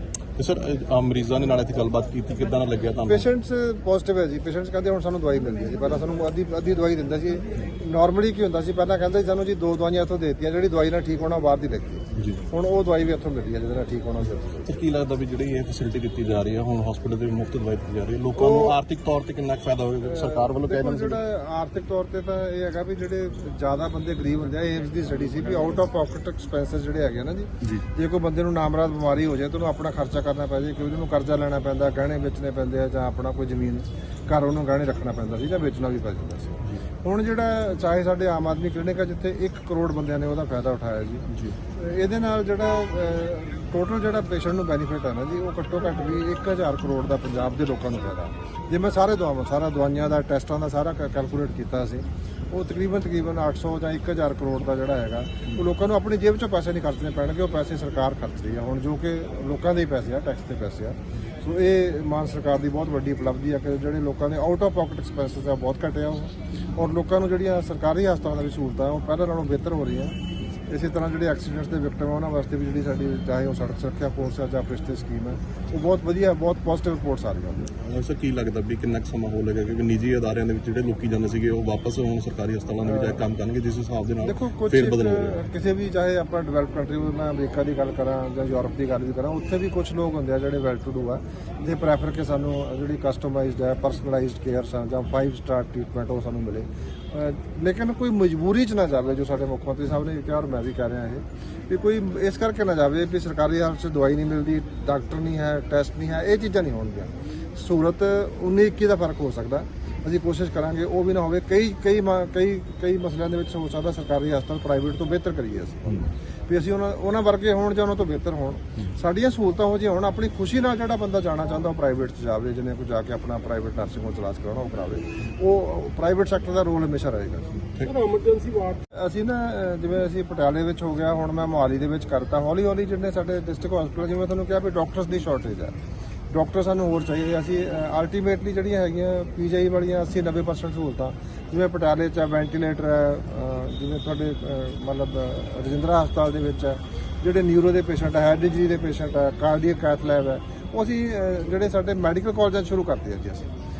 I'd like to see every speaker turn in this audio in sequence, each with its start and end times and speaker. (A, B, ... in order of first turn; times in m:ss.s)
0:00.4-0:03.3 A
0:03.1-0:14.8 B
0:12.1-0:12.4 A
0:14.6-0:21.2 A
0:18.4-0:18.8 B
0:20.0-1:10.2 B
0:41.3-0:41.5 A
1:10.7-1:17.7 B
1:17.7-1:25.4 A
1:22.8-1:23.2 B
1:24.2-2:07.6 B
2:07.8-2:08.3 A
2:08.9-2:15.8 B
2:16.3-2:33.5 B